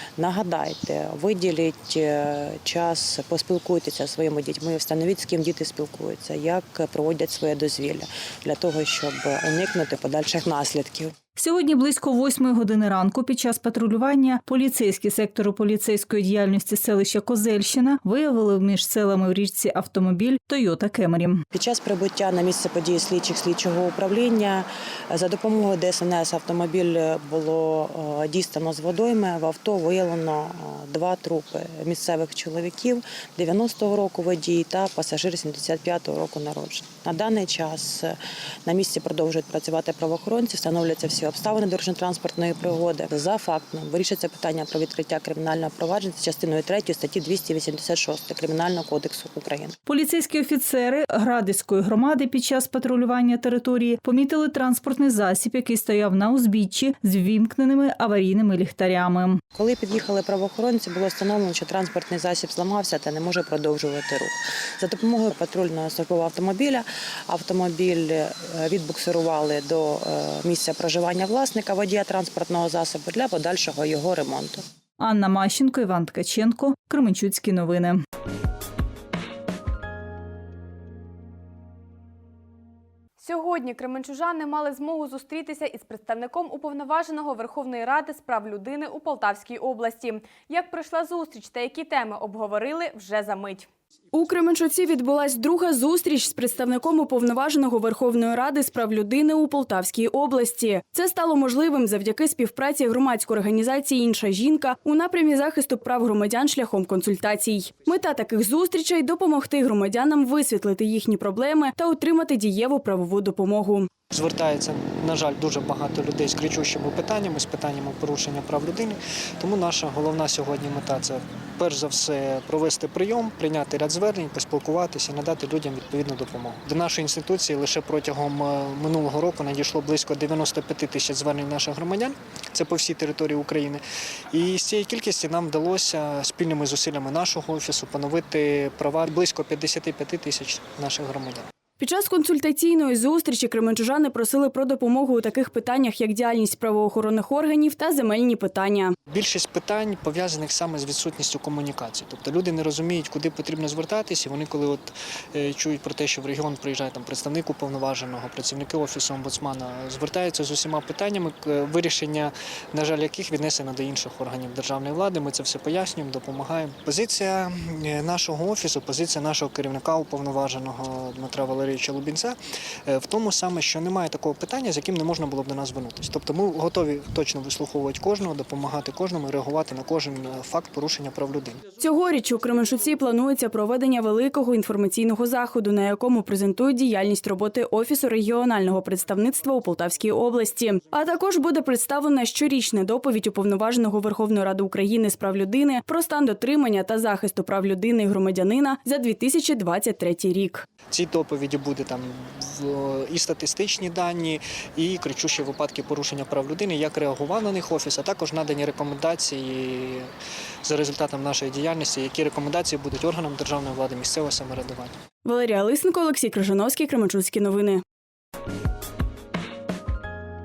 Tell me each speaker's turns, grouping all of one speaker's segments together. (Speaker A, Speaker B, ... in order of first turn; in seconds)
Speaker A: 0.2-11.2, 21.5-49.8, 59.5-74.6
Speaker B: 11.4-21.4, 49.9-59.4, 75.0-78.0
Speaker C: 83.2-93.7
Speaker D: 94.1-113.9, 141.8-148.9, 181.8-200.7, 215.2-217.8
Speaker E: 114.1-141.5, 149.1-181.7, 200.9-210.1, 210.6-214.9